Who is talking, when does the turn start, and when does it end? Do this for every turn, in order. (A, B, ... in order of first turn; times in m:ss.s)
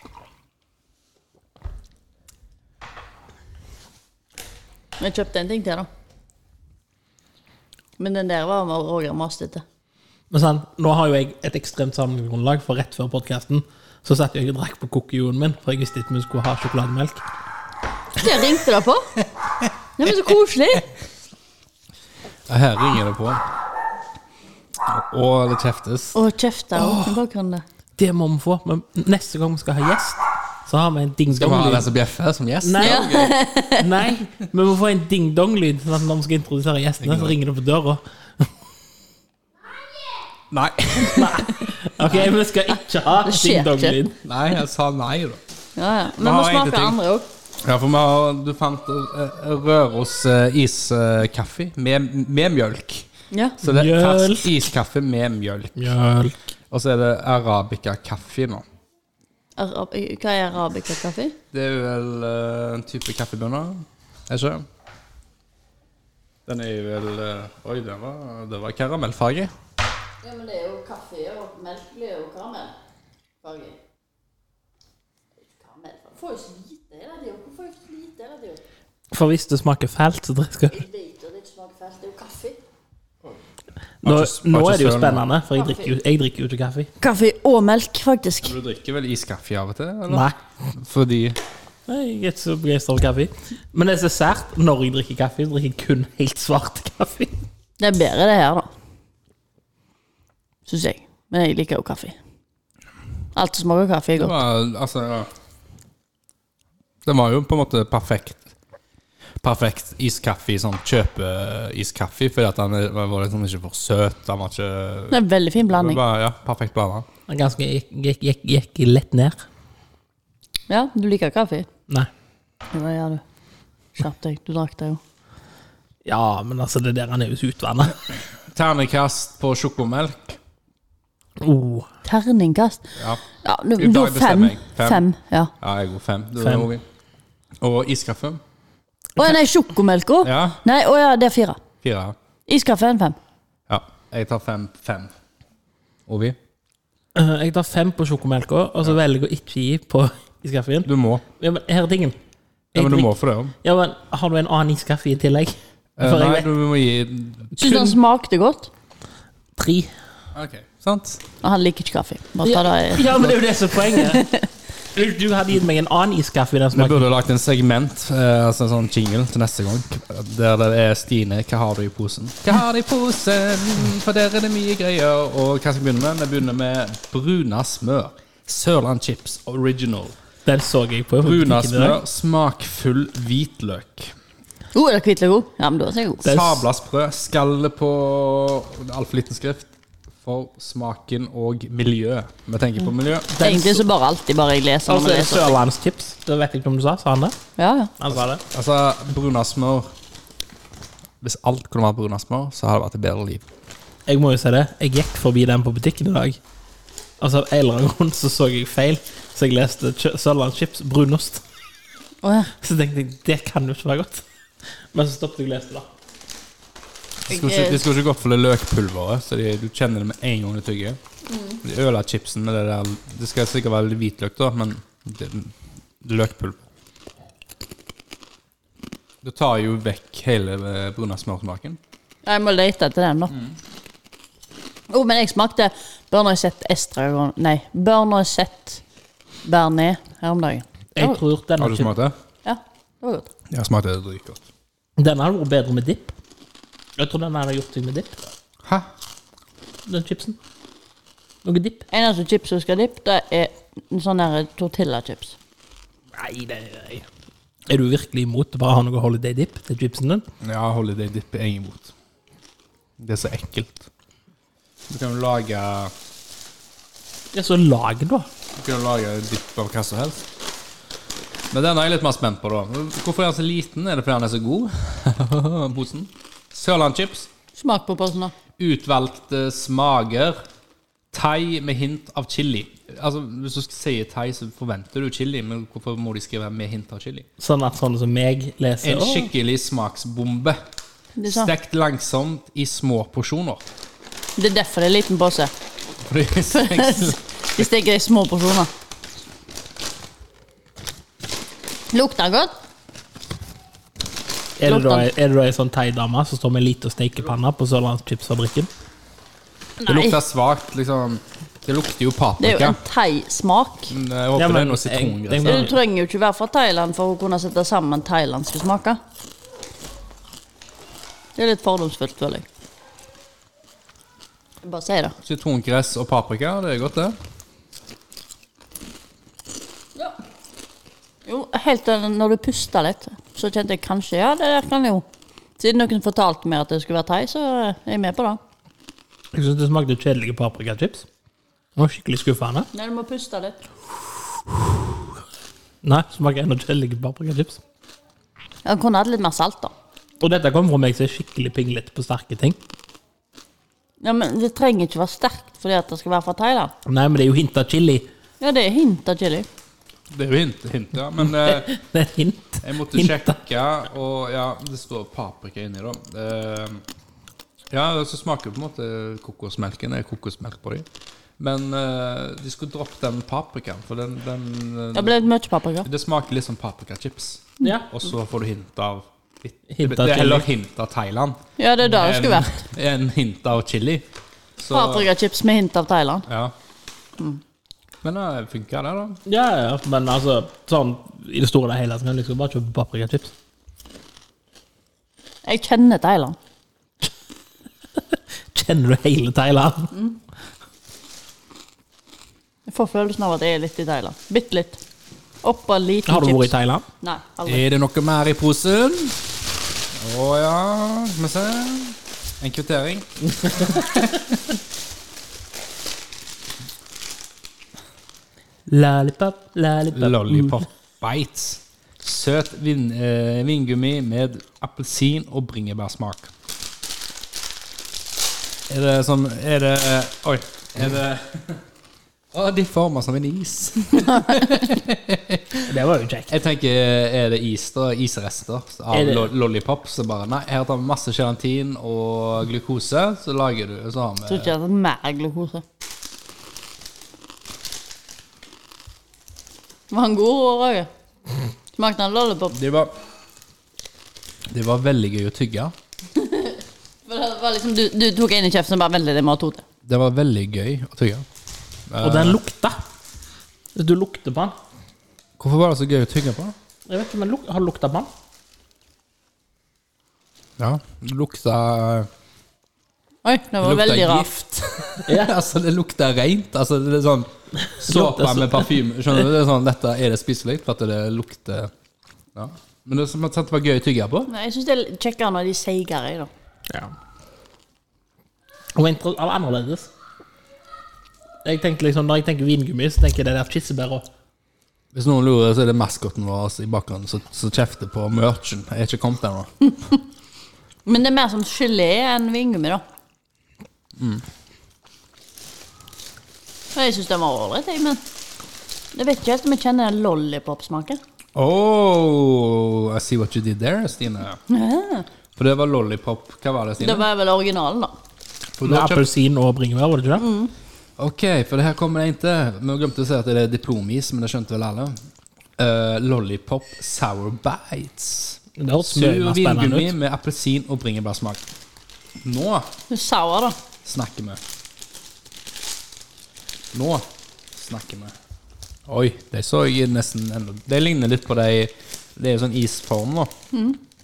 0:05.0-0:05.9 A
0:08.0-0:09.6 A
0:10.3-0:17.2 B
0:18.2-0:19.1 A
0:20.0-0:20.9 A
0:22.5-0:23.4 C
0:24.8-0:26.2 C
0:26.1-0:27.6 A
0:26.7-0:27.2 C
0:28.0-0:31.9 B
0:31.3-0:33.3 C
0:32.6-0:38.5 B
0:32.8-0:34.0 A
0:37.0-0:37.4 C
0:40.5-0:41.5 C
0:41.0-0:44.2 B
0:43.2-0:44.0 A
0:44.2-0:45.4 C
0:45.8-0:47.3 A
0:46.2-0:47.0 C
0:47.6-0:53.1 C
0:53.3-0:53.6 A
0:53.6-0:55.9 C
0:53.6-0:54.6 B
0:55.8-0:56.4 B
0:56.7-0:58.6 C
0:59.6-1:01.4 A
1:01.5-1:04.6 C
1:06.4-1:09.5 C
1:10.2-1:12.8 A
1:13.4-1:13.8 A
1:15.5-1:18.6 A
1:19.1-1:20.8 B
1:20.7-1:22.6 A
1:24.0-1:26.9 B
1:24.0-1:25.2 C
1:25.5-1:25.9 A
1:27.0-1:28.5 A
1:28.4-1:31.4 C
1:30.1-1:30.4 B
1:31.9-1:37.4 B
1:37.8-1:38.7 A
1:40.7-1:42.2 A
1:43.3-1:44.4 A
1:44.2-1:45.3 C
1:47.0-1:48.5 C
1:49.4-1:57.0 C
1:55.1-1:56.0 A
1:57.3-1:59.4 B
2:00.7-2:01.7 A
2:02.7-2:03.2 A
2:03.9-2:05.0 A
2:06.0-2:08.0 B
2:08.5-2:10.4 C
2:11.4-2:11.9 B
2:12.0-2:15.5 A
2:13.8-2:15.0 C
2:15.6-2:16.8 C
2:16.4-2:16.7 B
2:17.6-2:18.4 C
2:19.2-2:21.6 A
2:20.2-2:20.6 C
2:21.8-2:22.2 C
2:22.5-2:23.2 A
2:23.7-2:25.1 C
2:26.1-2:26.4 C
2:27.1-2:32.2 B
2:30.8-2:31.2 C
2:32.7-2:36.5 B
2:32.7-2:33.5 C
2:36.0-2:37.9 C
2:37.6-2:38.7 A
2:39.6-2:39.9 B
2:40.3-2:41.2 C
2:41.4-2:44.4 A
2:42.4-2:44.3 B
2:44.9-2:47.1 B
2:46.7-3:00.2 C
3:00.4-3:02.0 B
3:01.2-3:04.1 C
3:04.7-3:06.2 A
3:06.2-3:09.7 C
3:06.2-3:06.6 B
3:10.2-3:13.3 C
3:13.3-3:13.8 B
3:13.4-3:15.6 A
3:14.9-3:17.4 B
3:17.6-3:17.9 A
3:18.0-3:18.4 B
3:18.1-3:19.9 C
3:21.2-3:23.5 C
3:24.1-3:26.4 B
3:27.2-3:31.4 B
3:32.2-3:32.5 A
3:32.6-3:34.2 B
3:34.9-3:35.9 B
3:37.3-3:41.0 C
3:37.3-3:37.8 A
3:41.3-3:41.6 A
3:41.6-3:46.6 C
3:49.2-3:51.8 C
3:52.2-3:53.4 A
3:54.9-3:58.8 A
3:59.4-4:01.2 A
4:01.0-4:01.9 B
4:01.6-4:02.2 C
4:02.4-4:03.3 A
4:03.5-4:04.4 C
4:05.0-4:06.1 B
4:07.0-4:08.2 B
4:09.8-4:10.4 B
4:11.4-4:11.8 B
4:11.9-4:15.4 A
4:16.1-4:17.0 B
4:17.7-4:20.2 B
4:20.4-4:21.9 C
4:23.0-4:23.9 C
4:24.9-4:25.9 C
4:27.3-4:28.3 B
4:28.6-4:30.2 C
4:31.5-4:37.3 C
4:37.6-4:38.3 A
4:38.6-4:40.4 C
4:41.1-4:47.2 C
4:47.4-4:49.3 B
4:48.8-4:50.6 C
4:51.2-4:51.5 A
4:51.2-4:53.6 C
4:54.4-4:55.5 A
4:56.0-4:57.6 C
4:56.5-4:58.7 A
5:01.9-5:02.5 A
5:04.6-5:08.7 B
5:04.6-5:05.1 A
5:09.8-5:10.2 A
5:09.8-5:12.8 C
5:12.4-5:13.9 A
5:13.9-5:15.7 C
5:14.4-5:15.8 B
5:15.4-5:19.0 A
5:21.4-5:22.4 A
5:24.6-5:25.2 A
5:25.2-5:27.2 C
5:31.2-5:35.0 A
5:35.6-5:38.4 A
5:39.3-5:41.0 B
5:41.8-5:42.7 B
5:42.7-5:43.6 A
5:45.8-5:47.6 B
5:48.6-5:49.7 A
5:50.2-5:52.6 B
5:54.0-5:56.7 A
5:56.8-5:58.1 B
5:58.4-5:59.5 A
6:00.1-6:01.8 C
6:01.2-6:03.4 B
6:02.6-6:06.8 C
6:07.7-6:10.8 C
6:11.4-6:15.2 C
6:14.9-6:15.9 A
6:15.8-6:24.0 C
6:17.6-6:17.9 B
6:19.7-6:20.5 B
6:21.6-6:22.6 A
6:24.6-6:25.1 C
6:24.7-6:26.3 A
6:26.3-6:26.5 C
6:28.0-6:29.2 C
6:29.2-6:33.3 B
6:35.4-6:36.4 A
6:38.5-6:39.9 B
6:42.7-6:44.8 A
6:45.4-6:47.6 A
6:46.0-6:46.9 B
6:47.4-6:49.2 C
6:49.9-6:54.4 C
6:58.7-7:00.6 B
6:59.9-7:06.3 C
7:08.7-7:11.6 C
7:12.3-7:15.6 C
7:14.0-7:14.5 A
7:15.6-7:16.3 B
7:16.3-7:24.5 C
7:18.9-7:19.3 B
7:24.3-7:25.6 A
7:29.9-7:30.9 A
7:31.8-7:32.6 A
7:32.5-7:32.9 C
7:34.5-7:35.7 C
7:36.2-7:39.6 A
7:39.8-7:41.2 C
7:41.9-7:42.4 C
7:42.0-7:42.8 B
7:43.7-7:44.5 B
7:45.4-7:46.5 C
7:46.9-7:48.1 B
7:50.6-7:52.1 C
7:53.2-7:54.3 A
7:53.6-8:01.7 C
7:55.0-7:55.3 B
7:57.6-7:58.8 B
8:02.3-8:04.3 C
8:04.3-8:06.3 A
8:08.8-8:09.9 B
8:11.4-8:14.0 B
8:14.9-8:19.5 C
8:20.8-8:22.8 A
8:24.0-8:24.2 C
8:26.7-8:28.0 A
8:28.9-8:31.0 A
8:31.3-8:34.4 C
8:34.5-8:35.1 A
8:35.4-8:37.0 C
8:36.8-8:37.9 A
8:38.6-8:39.0 C
8:38.6-8:40.2 B
8:40.2-8:40.5 A
8:41.0-8:45.0 C
8:45.6-8:51.4 C
8:48.6-8:49.9 B
8:52.2-8:52.7 C
8:52.9-8:53.6 A
8:53.8-8:54.4 C
8:56.7-8:58.1 C
8:58.9-9:03.3 C
9:03.5-9:03.8 A